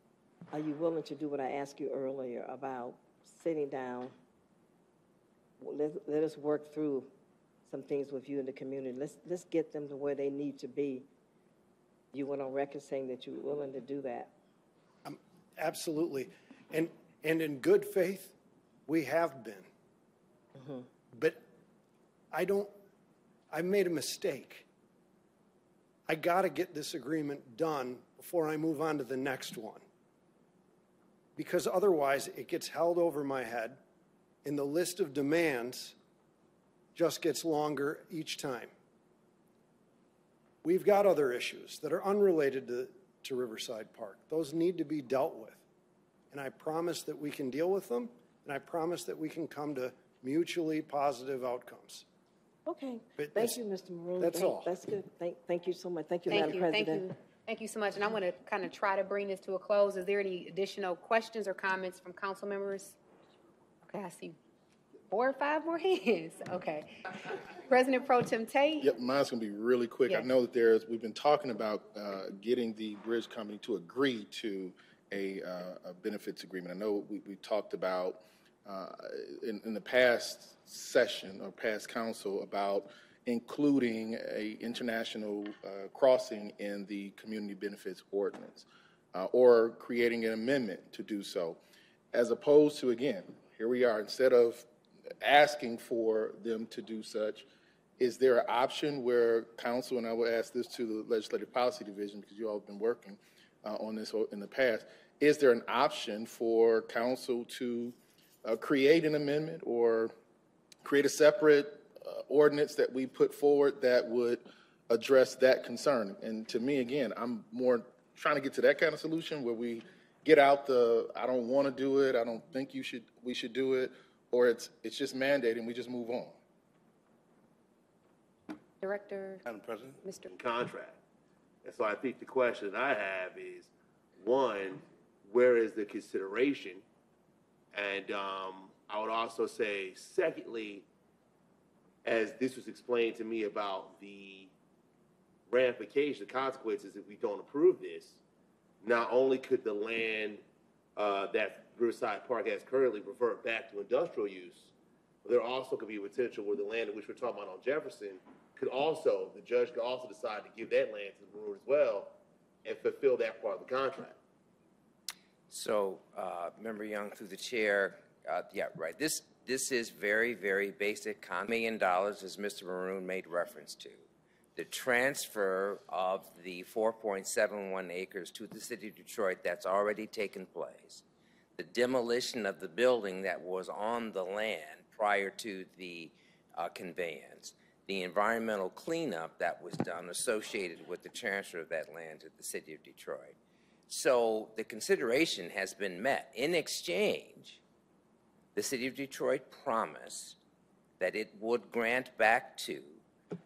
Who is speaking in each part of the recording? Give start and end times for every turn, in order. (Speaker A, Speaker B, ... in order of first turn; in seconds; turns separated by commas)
Speaker A: 0.5-4.1, Speaker A: 5.6-7.1, Speaker A: 7.7-11.1, Speaker A: 12.1-14.3, Speaker B: 15.0-18.3, Speaker B: 18.9-19.6, Speaker A: 20.6-20.9, Speaker B: 21.1-21.4, Speaker B: 22.3-22.7, Speaker B: 23.5-24.6, Speaker B: 26.1-29.8, Speaker B: 31.4-33.8, Speaker B: 34.4-35.9, Speaker B: 36.9-38.7, Speaker B: 40.6-45.6, Speaker B: 46.3-52.0, Speaker A: 52.6-57.0, Speaker B: 53.2-53.6, Speaker B: 54.2-54.7, Speaker C: 56.3-63.0, Speaker C: 63.9-64.3, Speaker C: 65.1-66.9, Speaker C: 67.7-68.9, Speaker D: 68.8-91.6, Speaker D: 92.1-94.7, Speaker D: 95.2-97.5, Speaker D: 98.0-110.1, Speaker D: 110.8-126.3, Speaker C: 128.8-129.4, Speaker C: 130.0-130.3, Speaker E: 130.3-131.0, Speaker E: 131.6-136.8, Speaker E: 137.7-140.8, Speaker E: 142.0-144.5, Speaker E: 145.5-148.2, Speaker E: 148.8-150.4, Speaker E: 150.9-154.7, Speaker E: 155.2-162.1, Speaker E: 162.6-164.2, Speaker F: 165.5-174.0, Speaker F: 174.6-181.0, Speaker F: 181.6-193.3, Speaker F: 193.9-197.6, Speaker F: 198.5-200.4, Speaker F: 201.0-203.0